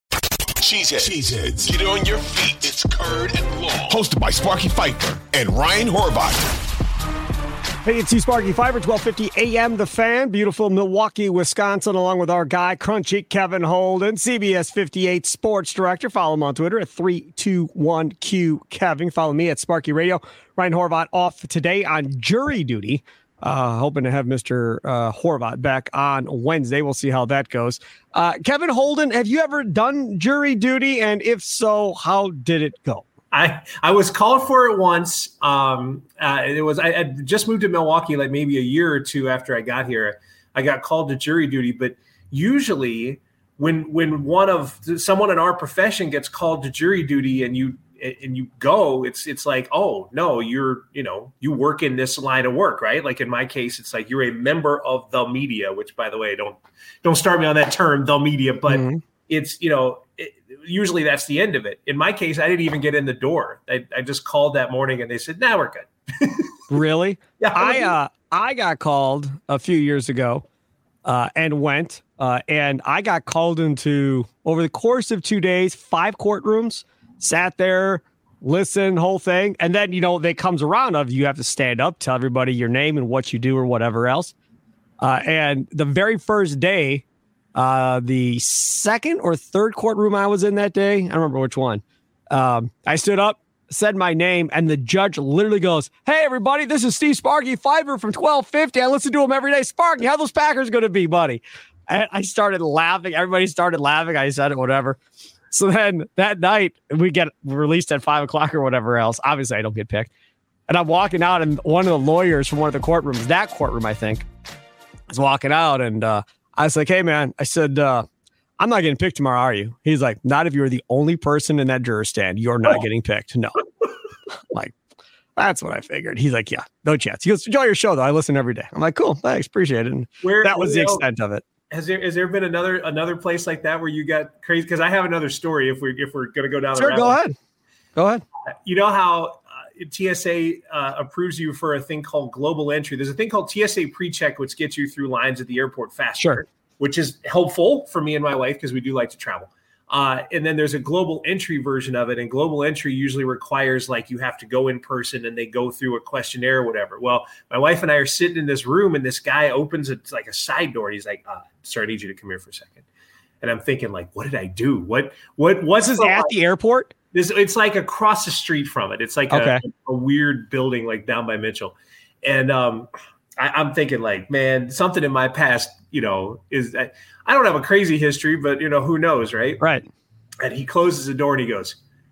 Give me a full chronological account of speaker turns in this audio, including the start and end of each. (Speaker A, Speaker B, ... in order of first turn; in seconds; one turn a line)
Speaker A: 0.6-6.5
Speaker B: 7.8-33.0
Speaker C: 33.3-66.5
Speaker B: 58.7-59.0
Speaker B: 66.7-70.4
Speaker C: 67.4-67.9
Speaker B: 71.0-84.3
Speaker B: 85.0-87.0
Speaker B: 87.5-105.0
Speaker B: 105.5-110.1
Speaker B: 110.7-114.2
Speaker B: 115.1-118.0
Speaker B: 118.6-123.5
Speaker B: 124.5-124.7
Speaker B: 125.4-131.4
Speaker C: 130.2-131.0
Speaker C: 131.7-137.3
Speaker B: 136.7-137.3
Speaker B: 137.9-138.2
Speaker C: 138.7-162.8
Speaker C: 163.4-166.3
Speaker B: 165.9-166.9
Speaker C: 167.1-179.6
Speaker B: 169.3-169.6
Speaker B: 179.6-179.8
Speaker C: 180.4-181.8